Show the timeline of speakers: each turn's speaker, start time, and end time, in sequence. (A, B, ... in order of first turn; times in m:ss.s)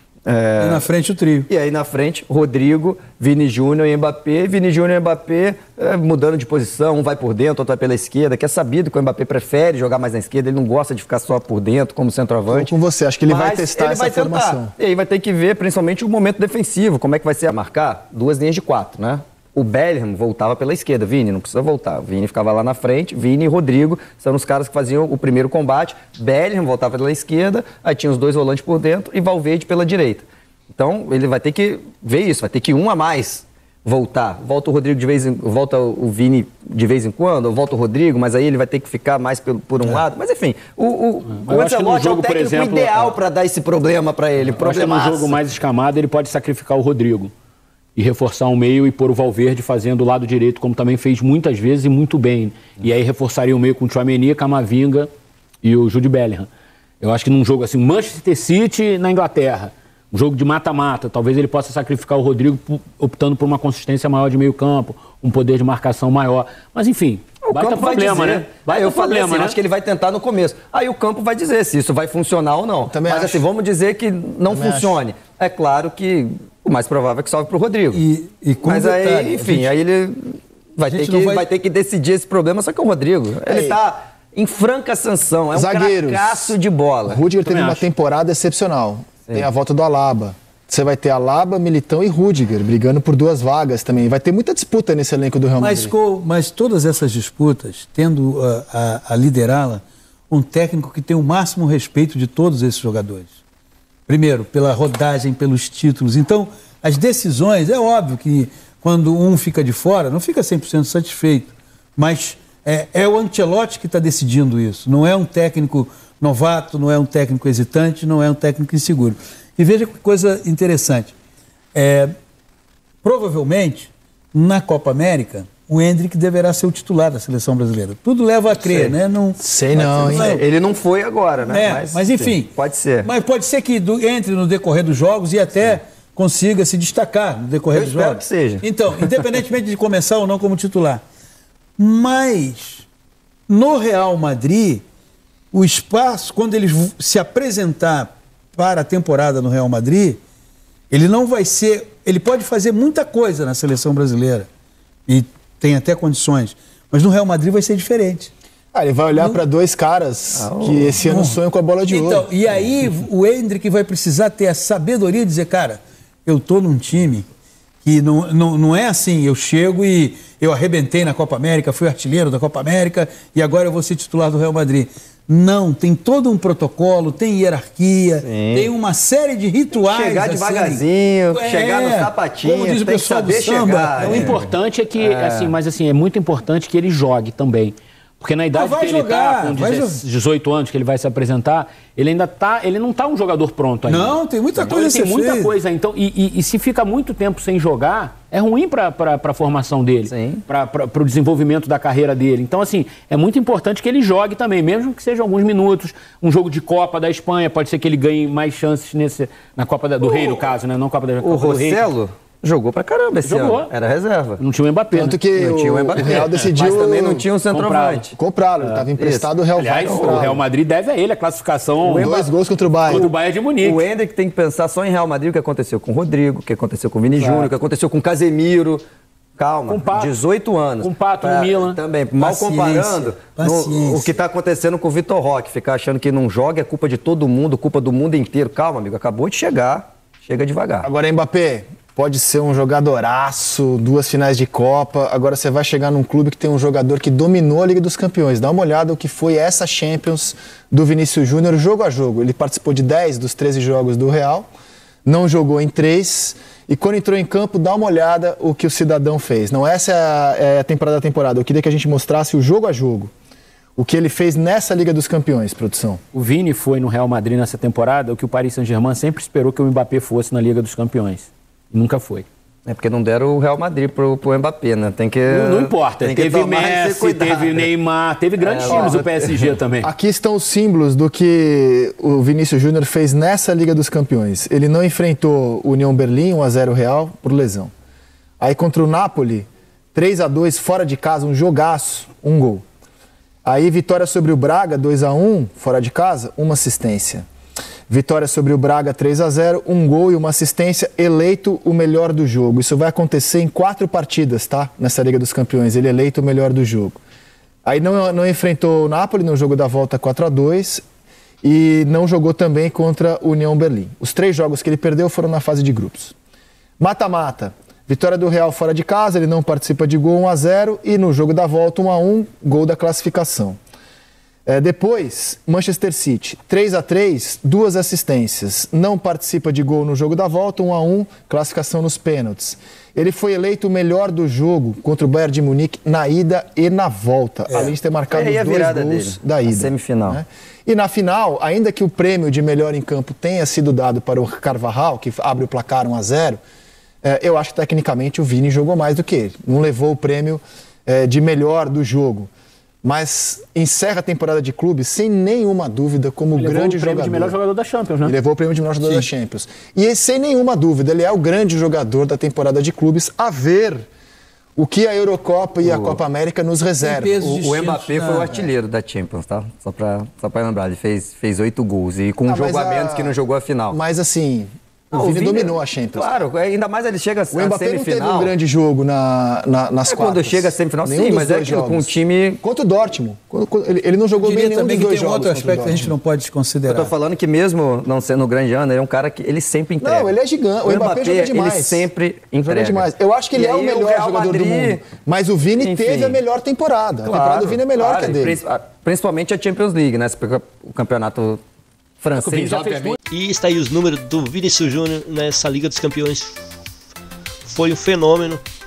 0:00.3-0:00.8 A
0:00.6-0:01.5 B
0:01.5-0:12.7 A
0:12.5-0:14.7 C
0:13.2-0:45.4 A
0:41.3-0:43.2 D
0:44.5-0:47.3 D
0:48.0-0:55.1 D
0:55.6-0:56.5 D
0:57.0-1:09.6 D
1:07.4-1:18.0 A
1:12.8-1:13.4 C
1:14.5-1:15.0 C
1:17.9-1:19.7 B
1:18.6-1:27.2 A
1:20.9-1:21.5 B
1:23.5-1:23.8 C
1:25.5-1:26.5 C
1:27.1-1:35.9 C
1:27.4-1:27.9 D
1:35.6-1:43.4 B
1:44.1-2:01.1 B
2:01.7-2:02.1 B
2:03.0-2:10.4 B
2:08.6-2:09.0 A
2:09.4-2:10.4 C
2:10.0-2:13.1 A
2:11.5-2:21.0 B
2:17.7-2:19.2 A
2:21.8-2:22.9 B
2:23.5-2:24.8 B
2:25.5-2:30.2 B
2:30.9-2:34.5 B
2:35.1-2:38.3 B
2:38.7-2:42.3 C
2:39.1-2:39.4 B
2:40.4-2:41.0 A
2:41.0-2:47.3 B
2:47.8-3:04.5 B
2:58.2-2:58.7 A
2:59.8-3:05.5 A
3:04.0-3:31.8 D
3:08.5-3:10.0 B
3:13.9-3:15.5 B
3:20.1-3:20.4 A
3:30.0-3:30.5 A
3:31.2-3:34.4 A
3:33.2-3:33.7 D
3:34.4-3:35.2 D
3:34.9-3:37.3 C
3:35.4-3:38.1 A
3:36.0-3:36.5 D
3:37.5-3:38.1 D
3:38.2-3:40.4 C
3:39.0-3:40.3 A
3:39.6-3:42.1 D
3:41.8-3:43.1 C
3:41.8-3:42.3 A
3:42.9-3:43.8 D
3:43.6-3:48.8 A
3:47.2-3:47.5 D
3:49.4-4:00.9 A
3:49.7-3:50.2 D
3:50.8-3:51.8 D
3:52.2-3:54.2 B
4:00.8-4:14.5 C
4:15.0-4:23.1 C
4:23.8-4:26.0 C
4:26.1-4:32.3 D
4:32.7-4:37.7 A
4:35.2-4:39.9 D
4:38.4-4:39.5 A
4:38.7-4:39.0 C
4:39.8-4:47.7 C
4:48.4-4:52.6 C
4:53.4-4:57.3 C
4:57.9-5:07.0 C
5:07.6-5:10.8 C
5:11.4-5:16.2 C
5:16.8-5:23.6 C
5:24.5-5:46.4 C
5:37.5-5:37.7 B
5:37.6-5:40.2 A
5:47.0-5:52.3 C
5:52.8-5:57.4 C
5:56.4-5:58.2 D
5:58.0-6:03.8 C
5:58.8-5:59.1 B
6:04.6-6:07.3 C
6:05.6-6:06.0 A
6:06.8-6:08.4 B
6:07.2-6:13.8 A
6:12.3-6:13.2 C
6:13.7-6:16.2 C
6:14.9-6:18.3 A
6:17.3-6:26.0 C
6:19.9-6:22.4 A
6:24.2-6:26.9 B
6:26.7-6:34.9 A
6:29.8-6:31.9 C
6:32.4-6:38.4 C
6:35.6-6:36.2 A
6:37.0-6:41.4 A
6:42.0-6:43.0 A
6:42.2-6:43.0 D
6:43.1-6:46.4 E
6:47.4-6:48.4 E